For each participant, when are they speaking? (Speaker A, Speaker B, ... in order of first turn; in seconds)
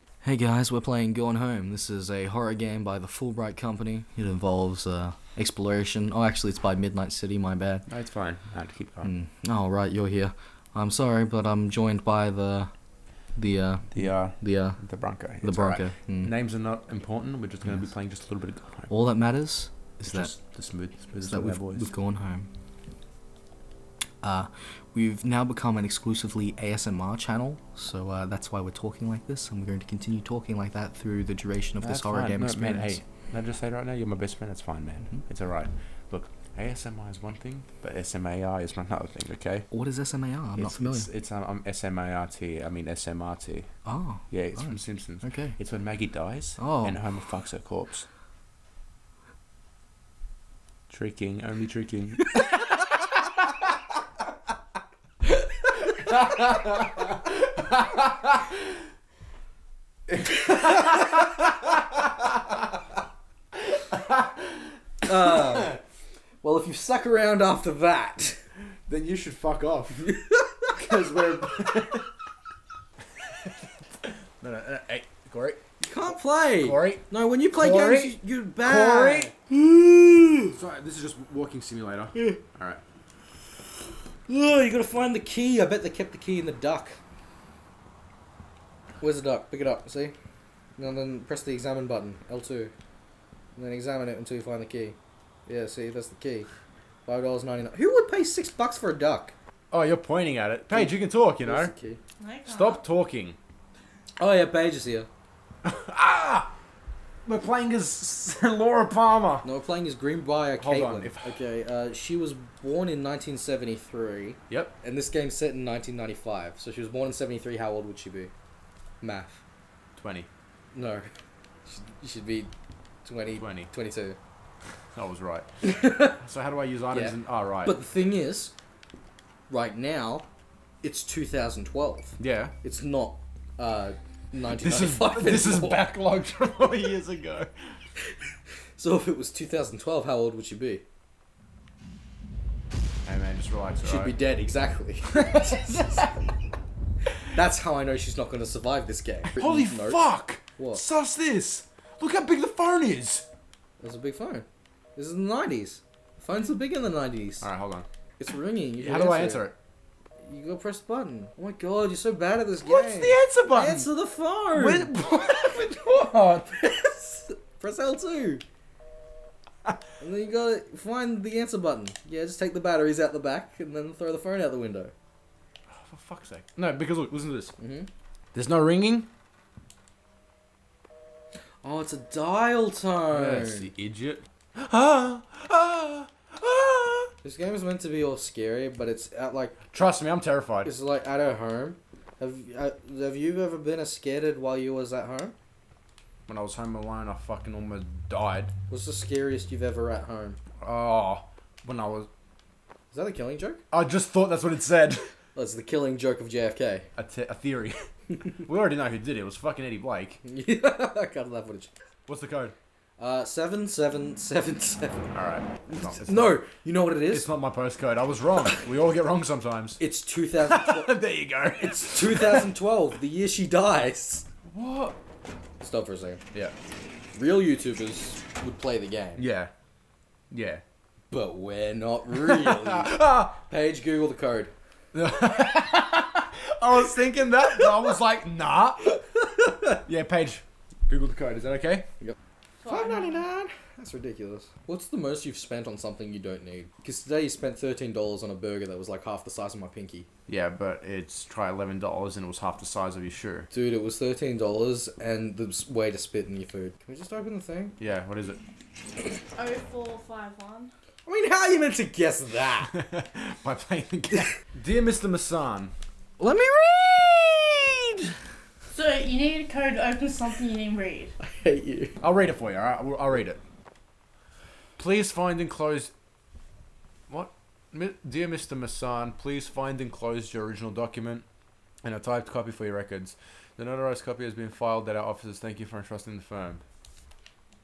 Speaker A: 0.2-7.9, 9.0-12.7, 13.3-14.8, 15.4-16.3, 18.9-20.3, 21.2-22.5, 24.2-33.0, 39.7-41.1, 43.8-45.5, 46.6-47.0, 60.1-61.3, 65.0-65.8, 66.4-68.5, 70.1-71.0, 75.8-80.5, 82.1-82.4, 84.3-87.0, 89.0-90.1, 90.8-92.7, 93.5-96.5, 97.0-99.3, 100.7-102.0, 104.2-105.1, 109.4-118.3, 119.0-119.4, 120.7-121.1, 121.7-122.5, 123.0-124.2, 125.6-126.2, 126.9-128.5, 129.5-130.3, 130.8-135.8, 138.8-140.8, 143.8-146.0, 147.3-150.0, 150.6-150.8, 153.8-157.5, 158.2-159.5, 160.2-168.4, 170.0-174.9, 177.6-177.9, 181.6-183.7, 187.2-189.7, 190.6-195.3, 198.7-200.4, 202.9-203.6, 205.3-206.9, 210.2-211.7, 213.0-215.1, 215.7-217.3, 219.8-221.0, 221.6-224.3, 225.6-226.2, 227.1-229.3, 231.1-234.5, 242.0-250.1, 253.5-257.8, 261.1-262.7, 266.2-268.1, 271.2-271.9
Speaker B: 7.9-9.1, 13.9-18.9, 20.0-21.9, 31.8-39.7, 40.5-48.0, 50.9-53.2, 55.9-58.7, 60.6-61.3, 63.5-65.8, 68.9-70.1, 70.7-72.1, 73.2-73.5, 74.4-75.6, 76.6-79.3, 80.5-82.8, 99.7-101.7, 102.4-103.4, 105.6-106.5, 107.2-109.4, 110.6-111.4, 114.5-114.7, 120.0-120.3, 123.4-123.7, 124.9-125.5, 126.1-127.8, 132.2-132.5, 134.5-137.5, 143.0-144.1, 145.1-146.1, 149.3-153.2, 157.4-157.8, 158.8-159.6, 162.6-163.9, 164.5-166.6, 175.7-177.5, 178.3-179.1, 183.1-187.1, 189.7-190.7, 196.3-198.5, 200.6-202.1, 203.7-205.1, 206.9-210.2, 212.1-212.5, 215.1-216.4, 217.1-219.8, 220.4-222.5, 224.5-225.0, 229.2-229.5, 230.3-230.6, 232.2-233.3, 234.9-239.0, 239.7-241.9, 250.3-253.5, 257.8-258.4, 262.7-265.7, 272.0-273.4, 274.8-275.9, 277.1-281.2, 281.8-286.6
Speaker C: 102.2-102.8, 242.6-243.2, 259.3-260.7, 268.7-271.1